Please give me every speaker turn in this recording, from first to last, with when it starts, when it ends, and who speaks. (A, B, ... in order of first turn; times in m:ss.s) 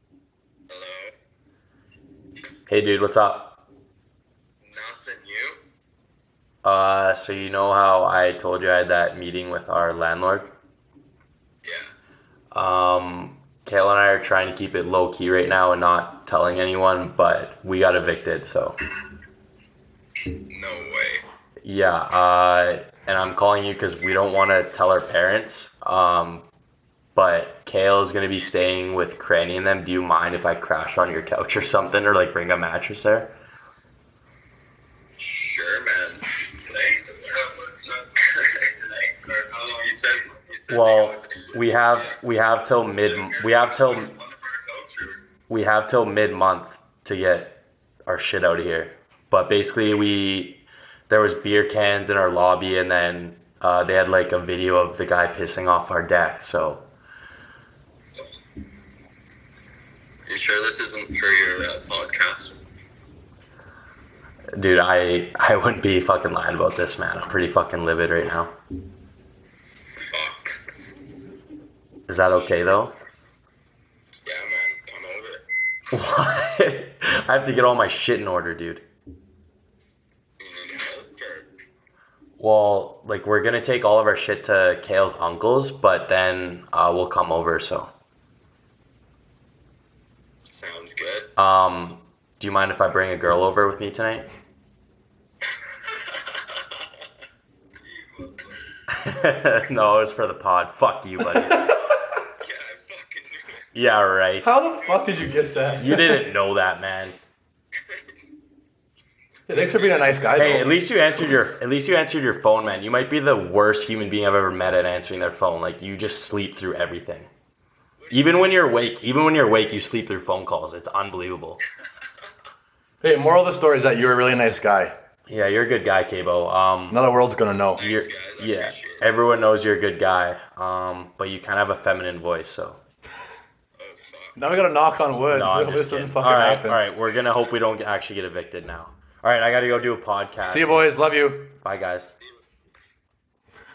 0:00.7-0:01.1 A
0:02.7-0:03.6 B
0:04.6-0:05.6 A
0:06.6-0:10.5 B
0:11.6-0:11.9 A
0:12.5-0:18.8 B
0:20.5-0:21.2 A
0:21.6-0:26.4 B
0:27.1-0:33.3 B
0:35.2-0:42.1 A
0:40.7-0:44.1 B
0:43.0-0:45.2 A
0:45.5-0:56.8 B
1:00.3-1:02.6 A
1:04.5-1:08.6 B
1:10.0-1:10.5 A
1:12.1-1:12.9 B
1:14.2-1:15.4 A
1:15.9-1:18.8 B
1:20.4-1:21.5 A
1:22.4-1:27.9 B
1:30.4-1:31.3 A
1:31.4-1:34.3 B
1:37.8-1:38.5 A
1:38.9-1:41.7 B
1:41.2-1:42.0 C
1:42.4-1:43.8 A
1:43.7-1:44.5 B
1:44.4-1:46.2 C
1:44.9-1:45.7 A
1:45.8-1:47.2 B
1:49.5-1:50.8 C
1:50.4-1:57.3 B
1:58.0-1:58.9 A
1:58.1-2:01.6 B
2:03.0-2:04.9 C
2:05.3-2:07.0 B
2:06.9-2:07.9 C
2:07.8-2:09.1 A
2:07.8-2:12.8 B
2:13.8-2:14.5 A
2:14.4-2:16.8 C
2:15.3-2:20.9 B
2:20.4-2:21.6 C
2:21.6-2:22.1 B